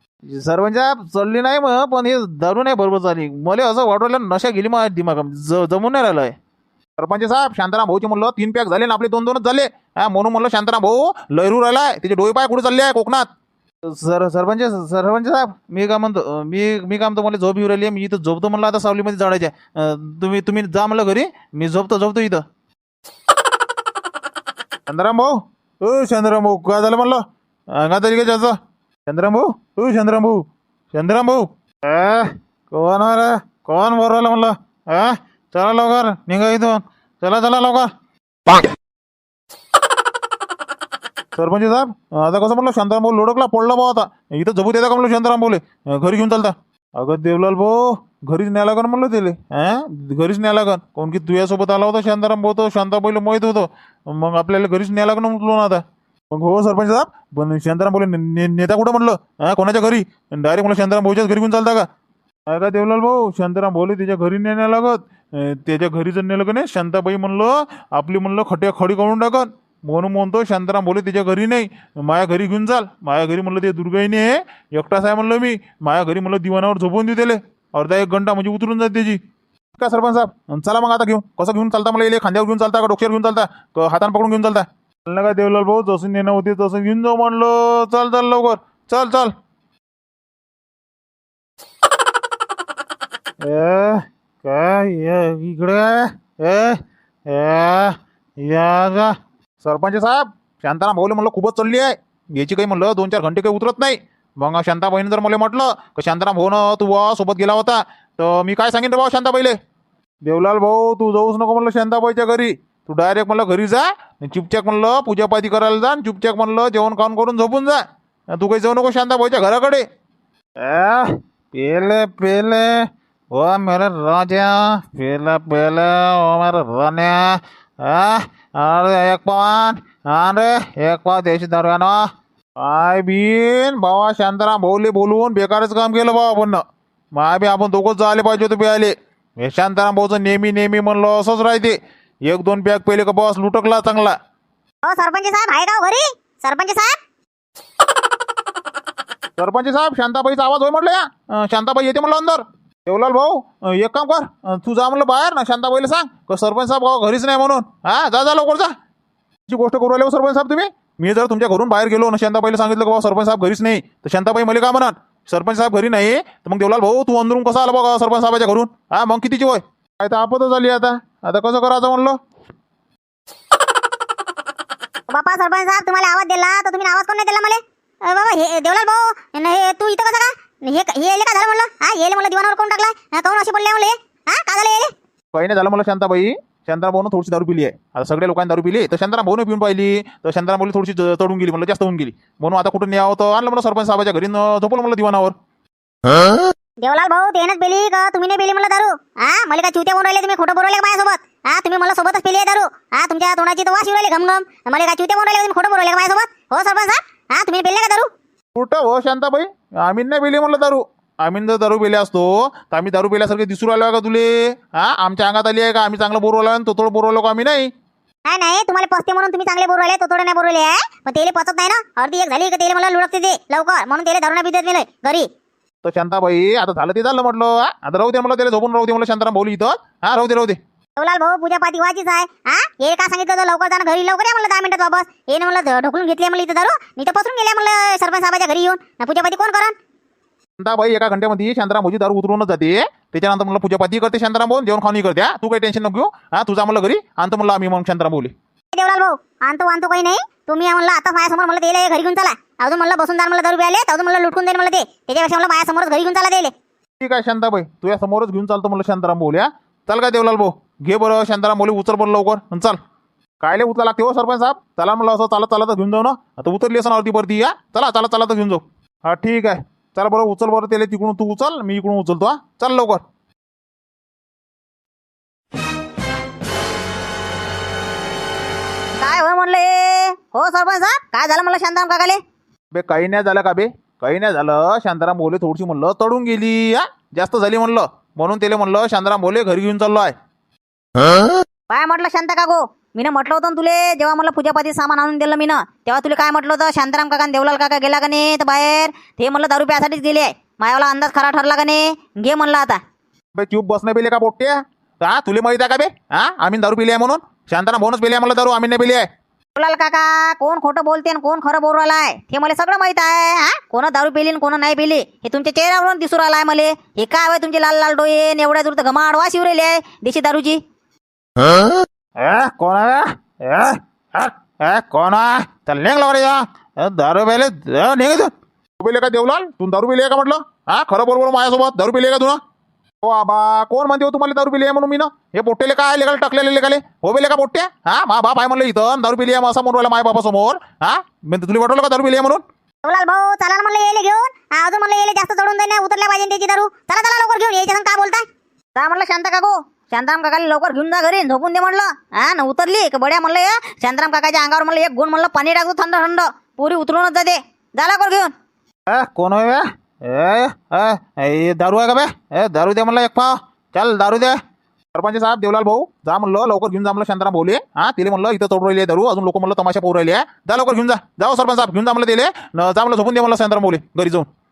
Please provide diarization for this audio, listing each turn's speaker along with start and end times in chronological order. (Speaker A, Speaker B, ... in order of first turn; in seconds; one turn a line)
Speaker A: 0.3-6.3
Speaker A: 7.0-13.3
Speaker A: 13.9-22.4
Speaker A: 24.9-27.2
Speaker A: 27.7-28.6
Speaker A: 29.1-37.9
Speaker A: 41.3-61.9
Speaker A: 62.5-79.2
Speaker A: 79.8-89.3
Speaker A: 93.4-109.6
Speaker A: 110.2-117.8
Speaker A: 118.3-119.8
Speaker A: 120.6-132.1
Speaker A: 132.6-136.6
Speaker A: 137.1-144.1
Speaker B: 144.8-146.9
Speaker A: 149.4-158.7
Speaker A: 159.5-172.2
Speaker B: 175.1-184.9
Speaker A: 185.3-195.3
Speaker B: 196.8-208.1
Speaker A: 208.5-217.7
Speaker B: 218.2-225.3
Speaker A: 225.8-230.6
Speaker B: 231.0-239.7
Speaker A: 240.6-248.3
Speaker B: 248.7-256.5
Speaker A: 257.0-262.8
Speaker A: 263.4-273.0
Speaker C: 279.0-282.2
Speaker A: 282.7-290.1
Speaker C: 291.7-302.8
Speaker A: 303.3-309.1
Speaker C: 309.6-320.6
Speaker A: 322.2-332.4
Speaker A: 333.0-342.4
Speaker B: 342.8-348.2
Speaker C: 348.8-358.3
Speaker A: 358.9-364.4
Speaker A: 364.9-374.3